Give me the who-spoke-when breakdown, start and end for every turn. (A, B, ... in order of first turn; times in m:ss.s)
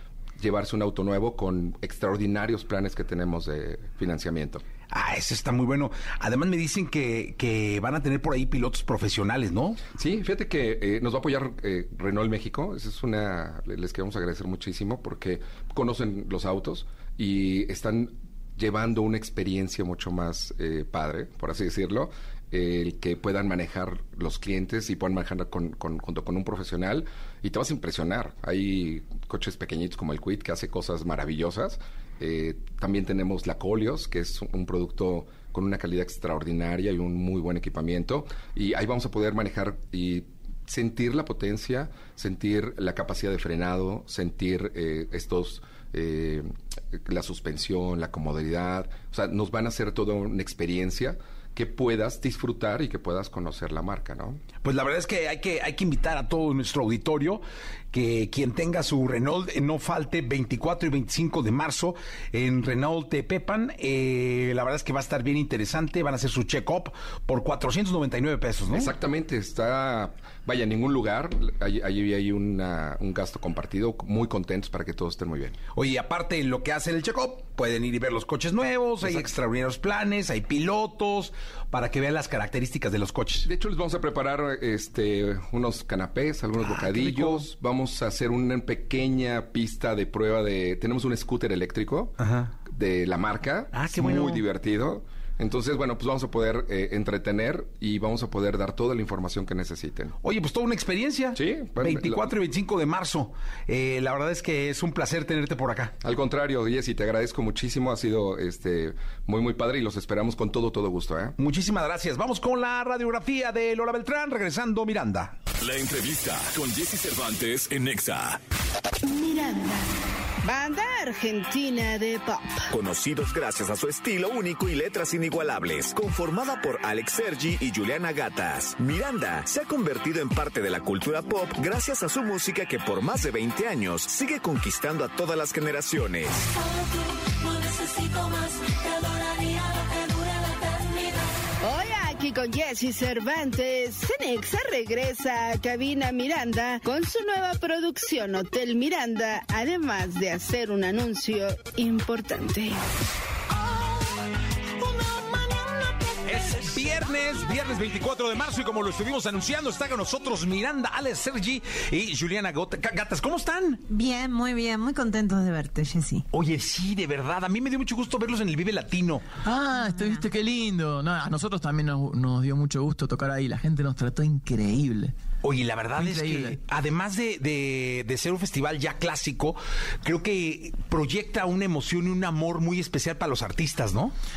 0:00.4-0:04.6 A
0:04.9-0:09.8 B
0:10.0-0:54.4 A
0:54.6-1:08.9 B
1:08.7-1:15.6 A
1:15.7-1:23.5 B
1:23.4-1:40.2 A
1:26.6-1:27.4 B
1:32.2-1:32.5 B
1:33.7-1:34.4 B
1:40.2-1:45.9 B
1:41.4-1:42.3 A
1:46.0-1:51.4 A
1:51.4-1:55.4 B
1:55.6-1:58.4 C
1:59.0-1:59.9 D
2:00.4-2:02.7 D
2:02.7-2:16.4 E
2:16.4-2:21.4 F
2:21.6-2:32.8 D
2:36.2-2:43.8 B
2:43.9-2:46.2 G
2:46.3-2:49.2 B
2:49.4-2:55.1 H
2:49.7-2:50.2 G
2:55.4-3:04.1 B
2:56.0-2:56.6 H